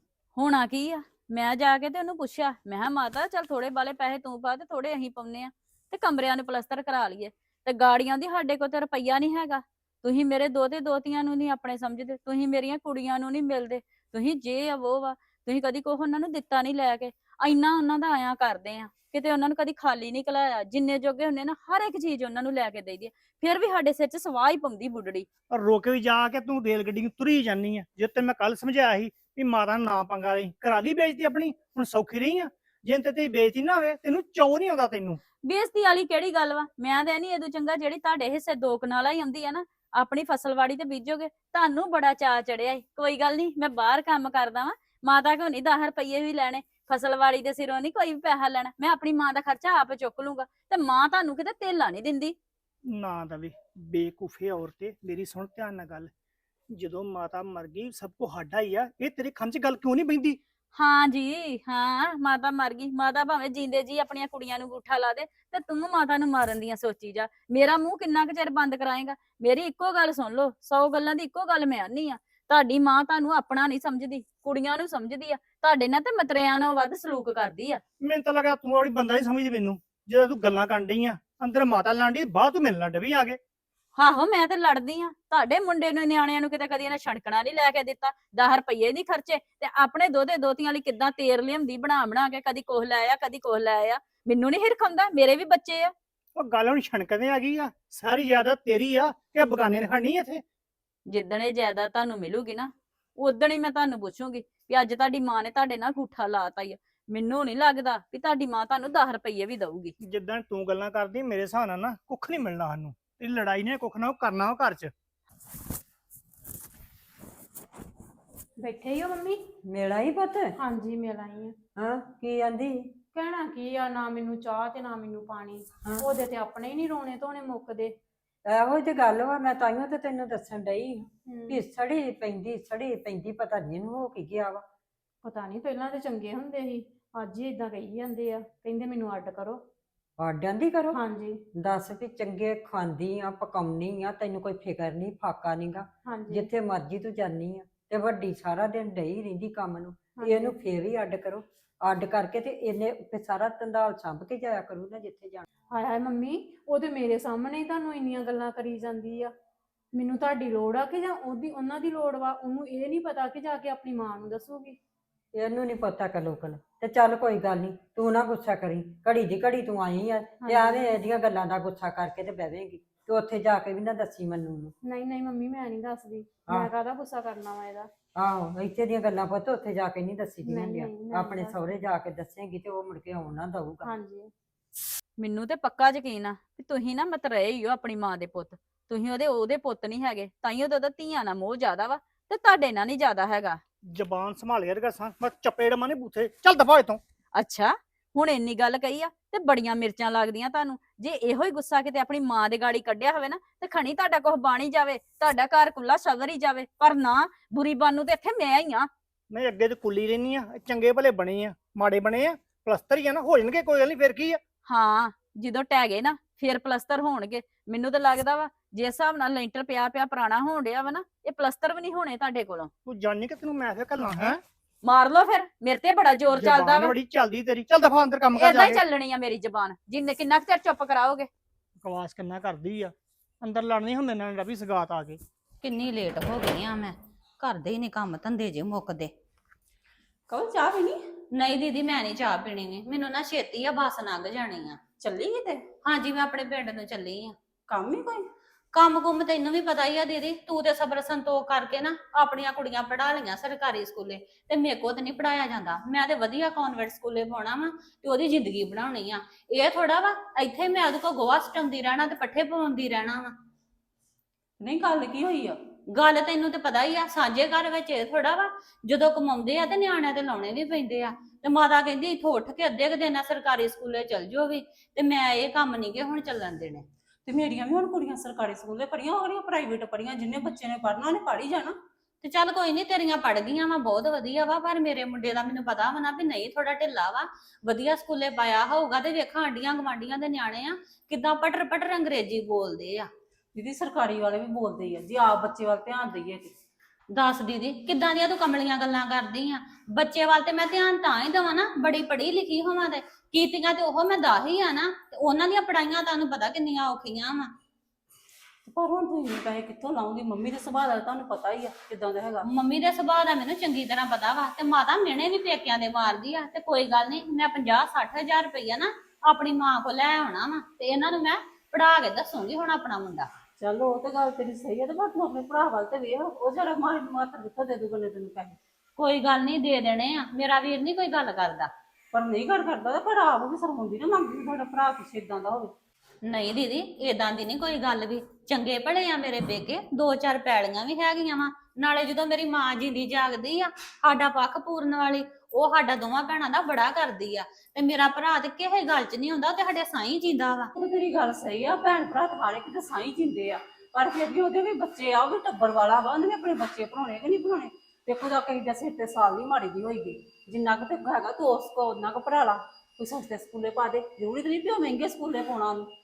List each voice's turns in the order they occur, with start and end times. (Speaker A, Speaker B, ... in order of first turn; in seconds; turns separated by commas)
Speaker A: 0.3-25.3, Speaker B: 25.5-35.2, Speaker A: 35.5-52.4, Speaker B: 52.9-56.1, Speaker B: 56.7-60.4, Speaker A: 60.7-77.8, Speaker B: 78.0-83.4, Speaker A: 84.0-95.9, Speaker B: 96.3-100.4, Speaker A: 101.1-109.9, Speaker B: 110.0-114.9, Speaker C: 118.6-119.4, Speaker D: 119.7-120.5, Speaker C: 120.6-121.5, Speaker D: 121.8-122.9, Speaker C: 123.1-127.9, Speaker D: 128.4-134.6, Speaker C: 131.2-131.6, Speaker C: 135.2-139.6, Speaker D: 140.2-141.0, Speaker C: 140.9-141.4, Speaker D: 141.5-155.4, Speaker C: 146.0-146.5, Speaker C: 150.2-150.5, Speaker C: 155.7-159.3, Speaker C: 159.9-164.8, Speaker D: 165.3-174.7, Speaker C: 170.4-170.8, Speaker C: 174.8-177.9, Speaker D: 178.2-183.9, Speaker C: 180.4-181.6, Speaker C: 183.8-184.3, Speaker A: 185.2-193.6, Speaker B: 193.8-197.0, Speaker A: 197.3-208.9, Speaker B: 209.3-214.4, Speaker A: 214.6-222.7, Speaker B: 222.8-224.4, Speaker A: 224.8-226.9, Speaker B: 226.3-228.8, Speaker A: 228.3-231.3, Speaker B: 231.8-235.2, Speaker E: 235.6-239.1, Speaker F: 240.3-241.0, Speaker E: 241.3-244.8, Speaker F: 245.0-245.7, Speaker E: 245.8-247.3, Speaker F: 247.7-248.3, Speaker E: 248.7-263.3, Speaker F: 264.6-265.6, Speaker E: 265.9-276.8, Speaker F: 277.2-281.8, Speaker E: 282.2-293.1, Speaker F: 293.5-296.5, Speaker E: 297.1-307.5, Speaker F: 308.6-312.4, Speaker E: 312.5-323.3, Speaker F: 323.6-328.6, Speaker E: 329.0-331.7, Speaker F: 332.1-335.7, Speaker E: 336.3-350.7, Speaker F: 350.8-365.9